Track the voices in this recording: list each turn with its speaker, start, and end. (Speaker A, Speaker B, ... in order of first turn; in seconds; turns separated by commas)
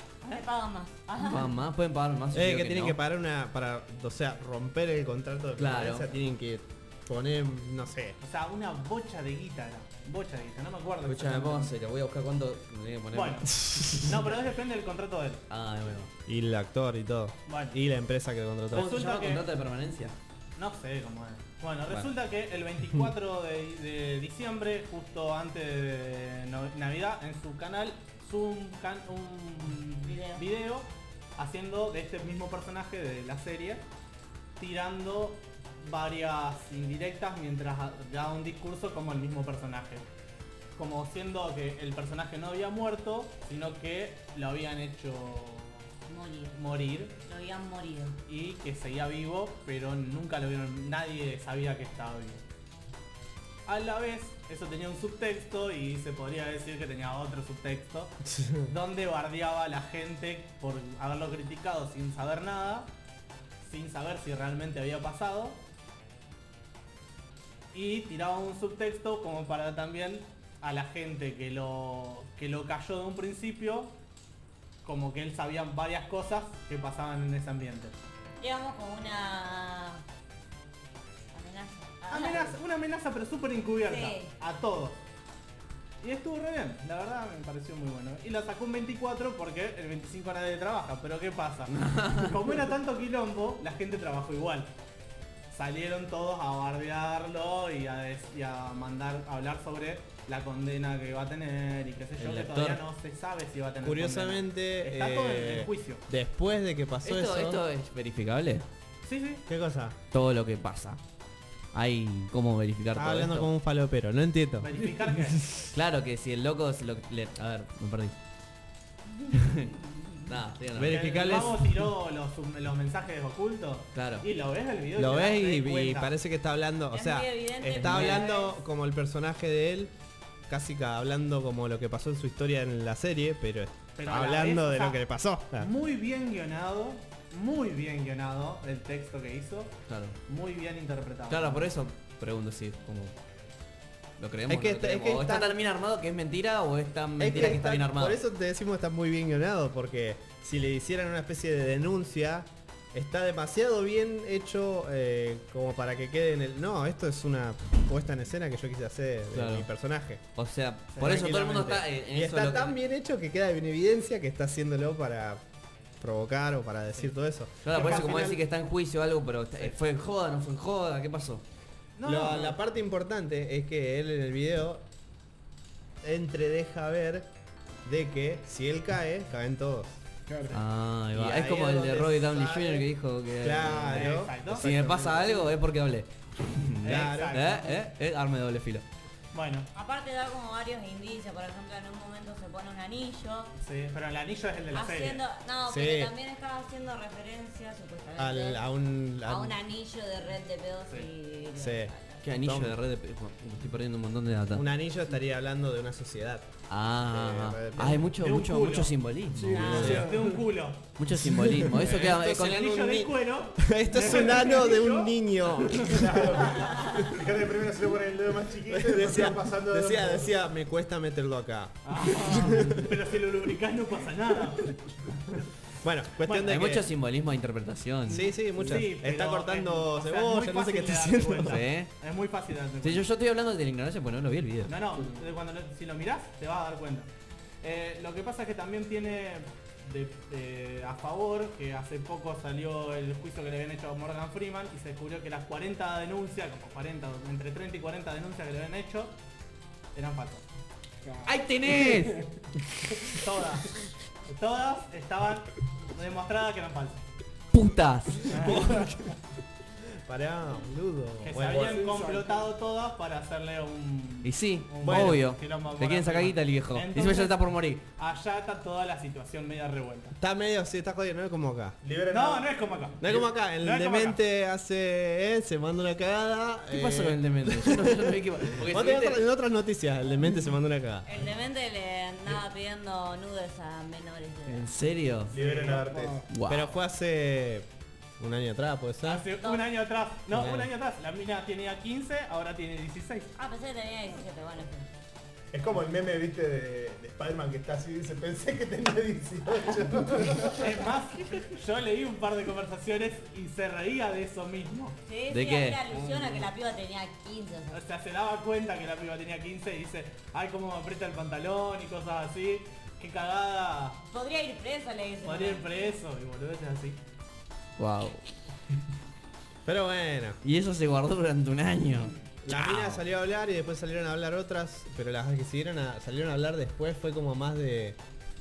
Speaker A: 0.2-1.6, Speaker B: 1.2-3.0, Speaker C: 2.3-8.2, Speaker B: 5.6-6.1, Speaker D: 8.2-11.7, Speaker B: 11.0-14.2, Speaker D: 13.1-15.4, Speaker B: 15.5-16.1, Speaker C: 16.3-18.9, Speaker D: 17.5-17.8, Speaker D: 18.7-19.4, Speaker B: 18.7-20.1, Speaker D: 20.6-33.9, Speaker A: 30.0-30.4, Speaker D: 34.6-40.0, Speaker D: 40.8-45.9, Speaker A: 46.1-48.1, Speaker D: 46.5-47.1, Speaker D: 48.3-52.4, Speaker D: 53.6-58.1, Speaker C: 58.3-58.7, Speaker D: 58.6-62.9, Speaker D: 63.6-65.6, Speaker D: 67.7-73.9, Speaker D: 74.8-78.0, Speaker A: 78.4-80.0, Speaker A: 81.3-82.6, Speaker D: 82.1-85.0, Speaker A: 83.8-84.3, Speaker D: 86.0-94.7, Speaker B: 91.7-92.5, Speaker D: 95.5-106.0, Speaker B: 102.2-102.8, Speaker C: 103.8-107.6, Speaker B: 107.0-108.6, Speaker D: 109.0-109.4, Speaker C: 109.5-110.0, Speaker B: 110.1-111.0, Speaker B: 111.7-113.5, Speaker C: 112.9-115.3, Speaker D: 114.6-115.5, Speaker B: 115.7-118.2, Speaker B: 119.3-119.7, Speaker B: 120.2-121.5, Speaker C: 120.8-121.8, Speaker D: 120.8-126.1, Speaker B: 123.9-124.3, Speaker C: 125.0-129.9, Speaker A: 126.9-128.6, Speaker B: 127.8-128.2, Speaker D: 127.9-128.3, Speaker C: 130.5-135.7, Speaker D: 134.0-135.0, Speaker D: 135.6-139.7, Speaker B: 139.9-140.2, Speaker D: 140.3-141.7, Speaker B: 141.3-143.1, Speaker B: 144.2-148.2, Speaker C: 144.5-145.6, Speaker C: 147.2-160.2, Speaker B: 159.3-159.7, Speaker B: 160.3-162.8, Speaker C: 161.0-165.4, Speaker C: 166.0-168.4, Speaker B: 167.6-171.4, Speaker D: 167.7-168.2, Speaker D: 172.0-172.6, Speaker C: 172.0-174.8, Speaker C: 176.0-177.3, Speaker C: 177.8-180.0, Speaker E: 180.3-180.6, Speaker B: 180.5-188.8, Speaker C: 181.1-182.9, Speaker C: 183.4-185.4, Speaker D: 183.7-184.7, Speaker D: 186.8-187.8, Speaker C: 186.8-187.5, Speaker D: 189.3-189.7, Speaker A: 189.7-193.5, Speaker D: 193.6-195.2, Speaker A: 194.7-198.6, Speaker C: 195.7-196.1, Speaker C: 198.2-199.6, Speaker A: 199.2-202.2, Speaker C: 201.6-202.8, Speaker B: 202.2-204.7, Speaker C: 204.5-208.1, Speaker B: 206.7-210.1, Speaker D: 207.9-208.9, Speaker E: 209.3-210.5, Speaker A: 209.5-210.1, Speaker D: 209.6-210.9, Speaker C: 209.8-210.1, Speaker B: 211.0-212.9, Speaker C: 211.2-216.5, Speaker D: 212.1-215.1, Speaker D: 215.7-215.9, Speaker F: 215.8-220.3, Speaker C: 218.7-222.9, Speaker D: 221.8-224.8, Speaker C: 225.8-226.9, Speaker D: 226.2-226.6, Speaker B: 226.4-228.3, Speaker C: 228.1-231.6, Speaker D: 228.5-233.1, Speaker B: 231.4-231.9, Speaker B: 232.8-234.8, Speaker D: 234.7-237.1, Speaker E: 234.9-235.2, Speaker D: 237.6-249.1, Speaker D: 249.9-250.4, Speaker E: 251.0-252.3, Speaker B: 251.2-252.3, Speaker D: 253.1-253.7, Speaker D: 254.2-257.0, Speaker B: 257.5-259.1, Speaker D: 258.3-258.7, Speaker C: 260.0-261.8, Speaker D: 261.2-270.1, Speaker E: 261.6-262.5, Speaker B: 264.2-267.8, Speaker C: 264.8-265.2, Speaker C: 270.2-271.8, Speaker F: 271.8-272.7, Speaker D: 272.1-274.2, Speaker C: 273.0-281.1, Speaker B: 276.7-279.2, Speaker A: 281.0-284.7, Speaker B: 284.5-285.4, Speaker F: 285.3-286.2, Speaker D: 285.4-285.8, Speaker E: 285.4-286.3, Speaker B: 286.3-286.8, Speaker C: 286.4-287.7, Speaker C: 288.2-289.3, Speaker D: 289.0-293.3, Speaker A: 289.4-289.7, Speaker C: 290.3-290.7, Speaker A: 293.4-294.9, Speaker F: 295.5-300.7, Speaker D: 300.6-305.0, Speaker A: 305.1-307.8, Speaker B: 305.3-305.8, Speaker E: 305.9-306.5, Speaker D: 307.7-314.0, Speaker A: 314.1-315.8, Speaker D: 315.2-317.0, Speaker B: 317.8-318.2, Speaker C: 319.6-320.4, Speaker B: 320.4-323.0, Speaker C: 322.4-328.0